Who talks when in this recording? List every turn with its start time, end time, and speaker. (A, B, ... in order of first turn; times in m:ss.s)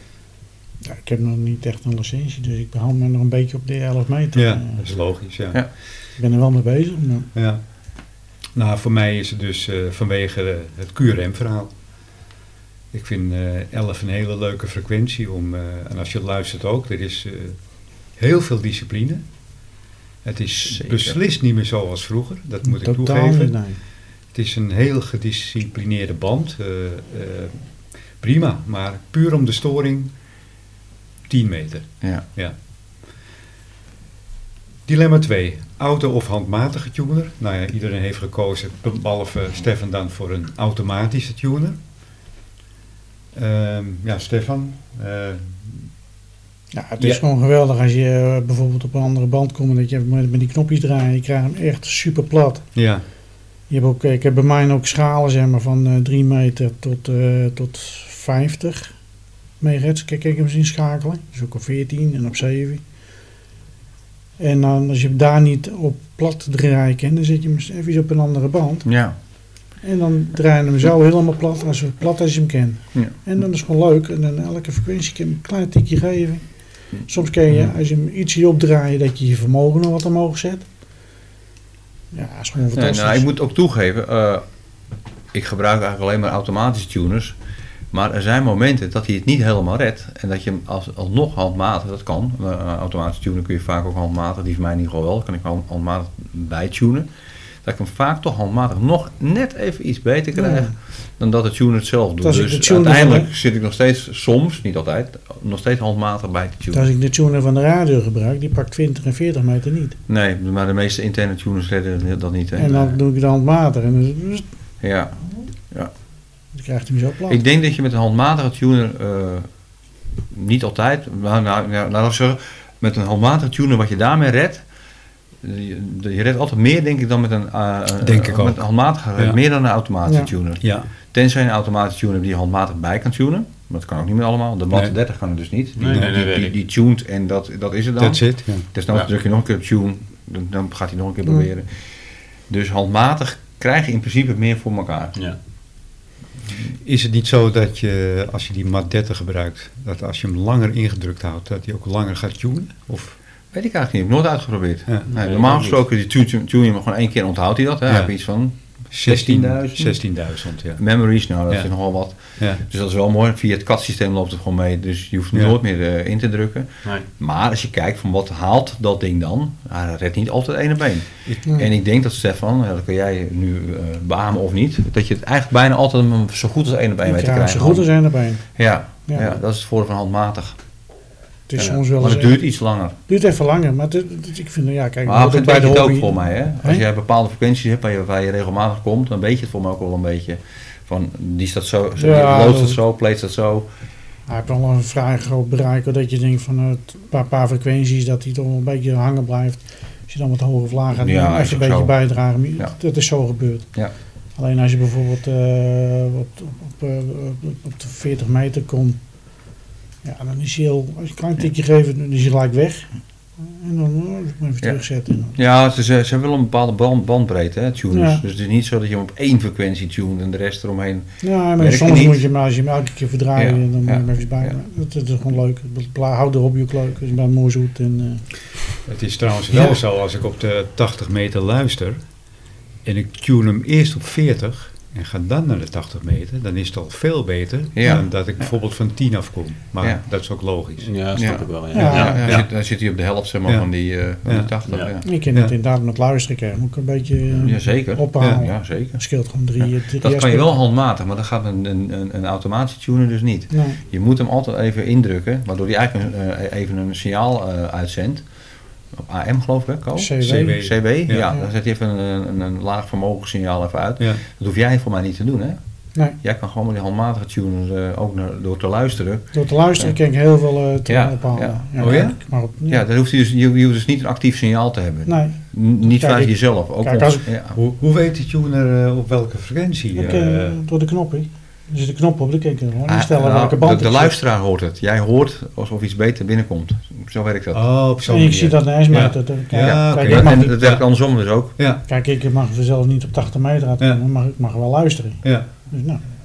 0:00.8-0:04.8 A
0:04.3-0:05.6 B
0:06.2-0:07.3 A
0:07.4-0:07.6 B
0:08.6-0:11.7 B
0:12.9-0:17.6 B
0:18.2-0:19.2 B
0:20.2-0:23.6 B
0:20.6-0:21.2 C
0:22.6-0:23.8 A
0:24.3-0:27.6 B
0:28.2-0:30.1 B
0:31.3-0:32.5 B
0:34.9-0:41.8 B
0:43.3-0:45.9 B
0:46.7-0:52.6 A
0:52.8-0:53.0 B
0:53.7-0:59.0 A
0:59.6-1:02.8 A
1:04.4-1:08.9 A
1:08.8-1:09.2 C
1:09.8-1:16.4 A
1:17.0-1:20.7 A
1:22.1-1:23.3 A
1:22.7-1:24.4 C
1:25.3-1:27.4 C
1:27.9-1:37.1 C
1:37.6-1:46.9 C
1:40.4-1:40.7 A
1:42.2-1:43.3 A
1:46.7-1:50.0 A
1:50.1-1:52.9 C
1:52.6-1:54.4 A
1:54.8-1:55.2 C
1:56.6-1:57.4 A
1:57.3-1:59.5 C
2:00.3-2:04.6 C
2:05.4-2:21.7 C
2:08.0-2:08.6 B
2:10.1-2:10.3 A
2:10.6-2:10.9 B
2:15.8-2:16.6 D
2:18.0-2:18.7 B
2:22.5-2:25.2 C
2:26.8-2:33.2 B
2:33.5-2:40.0 C
2:35.1-2:35.8 D
2:37.9-2:38.1 B
2:38.9-2:40.8 B
2:40.8-2:57.9 C
2:42.4-2:42.6 B
2:57.0-2:58.4 A
2:58.5-3:00.6 C
2:59.1-2:59.3 A
3:01.5-3:02.4 A
3:02.0-3:03.0 C
3:03.1-3:06.8 A
3:05.0-3:13.7 C
3:12.0-3:12.8 A
3:14.3-3:23.7 A
3:21.0-3:21.9 C
3:24.4-3:29.0 A
3:30.0-3:32.9 A
3:33.4-3:35.4 A
3:35.4-3:42.2 C
3:37.9-3:38.2 A
3:41.2-3:48.2 A
3:43.4-3:44.5 C
3:48.9-3:52.0 B
3:52.8-4:00.9 B
3:57.8-3:58.1 C
4:00.8-4:02.5 D
4:01.2-4:05.1 C
4:01.7-4:02.3 A
4:04.3-4:04.5 B
4:04.7-4:04.9 D
4:05.0-4:10.6 A
4:07.3-4:09.0 C
4:09.6-4:18.2 C
4:13.5-4:13.8 A
4:19.0-4:25.6 C
4:20.0-4:21.5 A
4:20.2-4:21.3 B
4:26.1-4:29.9 C
4:29.3-4:32.8 A
4:30.9-4:32.1 C
4:31.8-4:32.2 B
4:32.7-4:37.6 C
4:35.1-4:37.2 A
4:37.6-4:40.6 B
4:40.0-4:44.2 A
4:42.9-4:47.6 C
4:47.5-4:50.8 B
4:48.0-4:50.6 A
4:49.6-4:51.5 C
4:51.6-4:51.8 B
4:51.9-4:56.0 A